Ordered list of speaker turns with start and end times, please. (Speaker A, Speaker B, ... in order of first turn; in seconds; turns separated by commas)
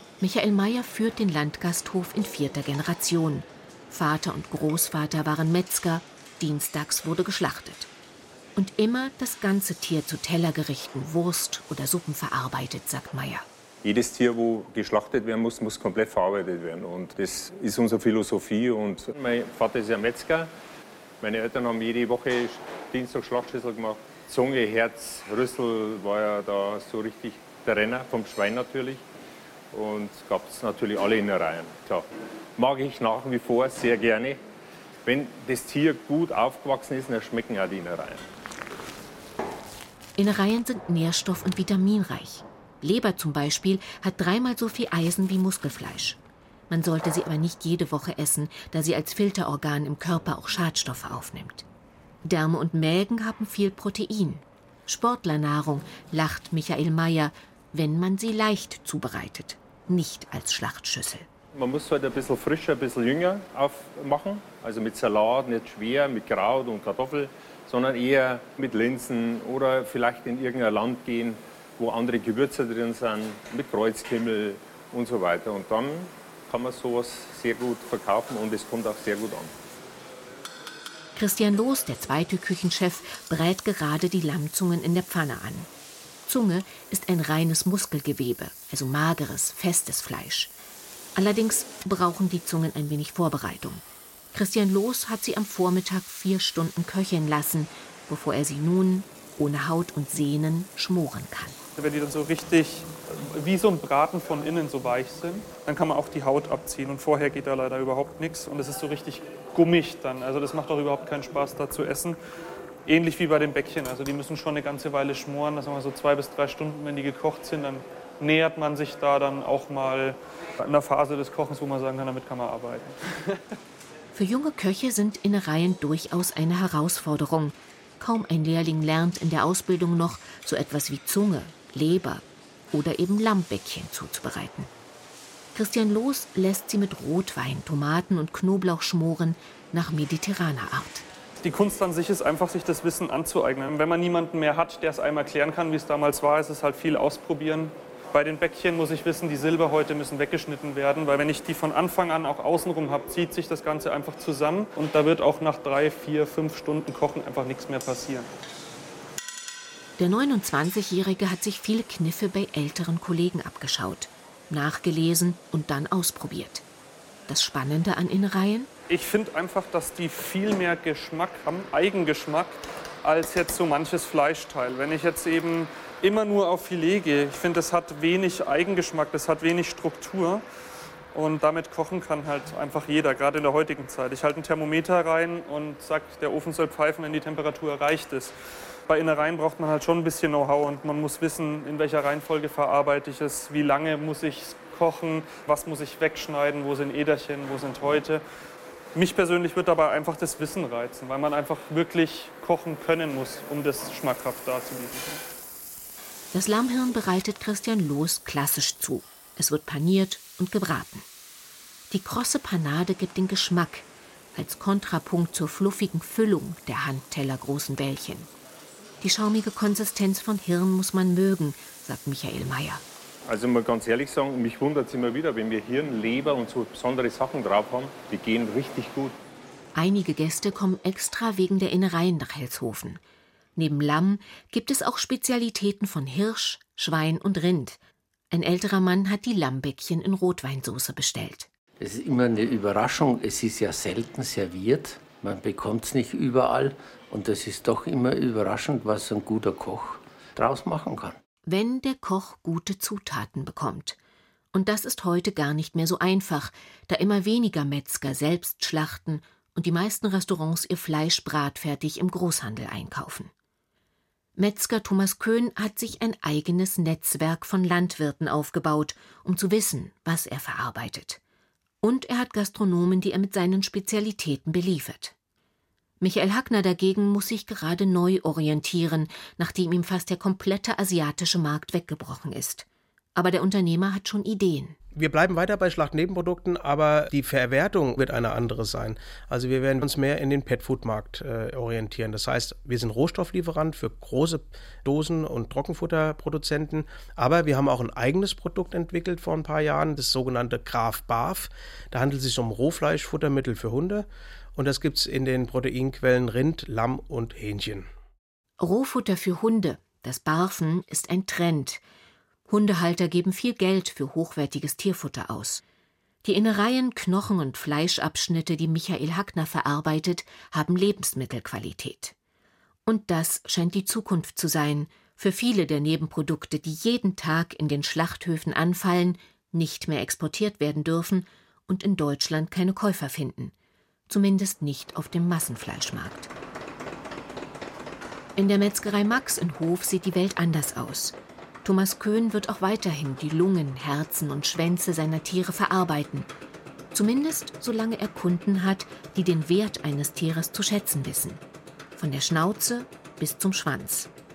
Speaker A: 0.2-7.9, Speaker A: 8.6-13.4, Speaker B: 13.8-20.5, Speaker B: 21.2-29.1, Speaker B: 29.7-34.4, Speaker B: 35.0-38.3, Speaker A: 40.2-46.2, Speaker A: 46.7-51.6, Speaker A: 52.2-61.3, Speaker B: 61.5-79.5, Speaker A: 81.2-85.7, Speaker A: 86.3-90.5, Speaker A: 91.2-93.8, Speaker A: 94.3-101.6, Speaker C: 101.8-112.2, Speaker C: 112.9-123.4, Speaker A: 124.2-134.7, Speaker A: 135.5-141.1, Speaker C: 141.4-158.3, Speaker A: 160.0-166.7, Speaker A: 167.3-168.7, Speaker C: 168.9-180.4, Speaker C: 181.1-188.3, Speaker C: 188.9-198.2, Speaker C: 198.9-205.2, Speaker A: 206.3-211.1, Speaker A: 211.9-218.3, Speaker A: 219.0-222.8, Speaker B: 223.3-229.2, Speaker A: 229.8-233.0, Speaker A: 233.6-237.8, Speaker A: 238.3-241.5, Speaker D: 241.8-251.2, Speaker A: 251.5-254.0, Speaker A: 254.5-263.3, Speaker A: 264.4-271.2, Speaker A: 271.8-275.1, Speaker A: 276.0-284.8, Speaker E: 284.9-307.9, Speaker A: 308.6-311.8, Speaker A: 312.5-315.6, Speaker A: 316.2-322.1, Speaker A: 322.9-333.5, Speaker A: 334.1-336.3, Speaker A: 338.4-346.3, Speaker A: 346.9-351.4, Speaker A: 352.0-354.1